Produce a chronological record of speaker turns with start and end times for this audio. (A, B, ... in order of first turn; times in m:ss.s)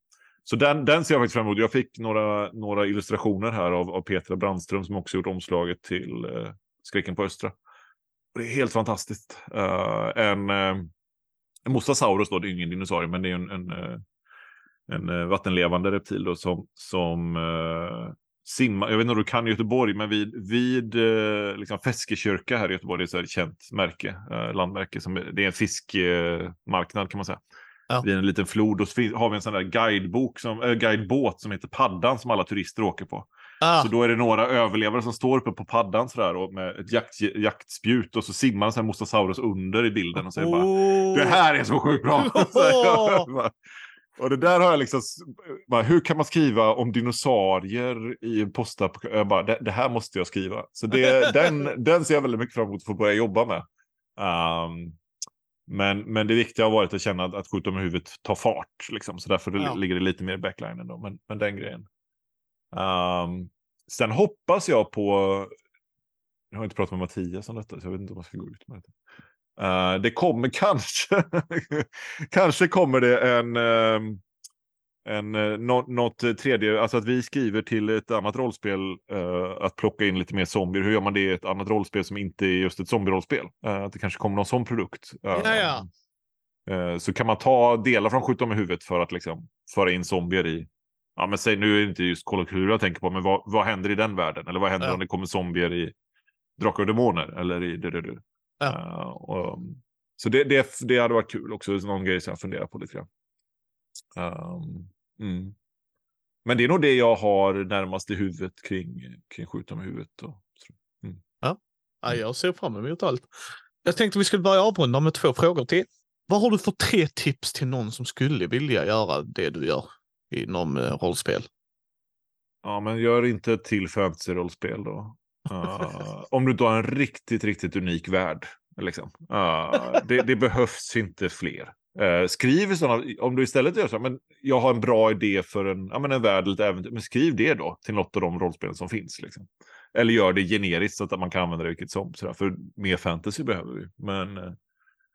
0:00.4-0:07.5 A
0:08.3-0:10.9 A
0:11.6-0:14.0 A
0:14.9-0:27.4 A
0:28.0-0:43.6 A
0:33.6-0:33.9 B
0:40.3-0:41.4 B
0:42.2-0:43.3 B
0:44.1-0:53.6 A
0:54.2-0:55.0 A
0:55.7-1:01.9 A
1:02.7-1:05.5 A
1:06.5-1:08.9 A
1:09.6-1:14.2 A
1:15.0-1:25.8 A
1:25.3-1:25.8 B
1:26.6-1:35.9 A
1:36.6-1:43.1 A
1:44.1-1:45.5 A
1:46.4-1:51.2 A
1:51.4-1:53.3 B
1:53.8-2:01.5 B
2:02.6-2:24.6 A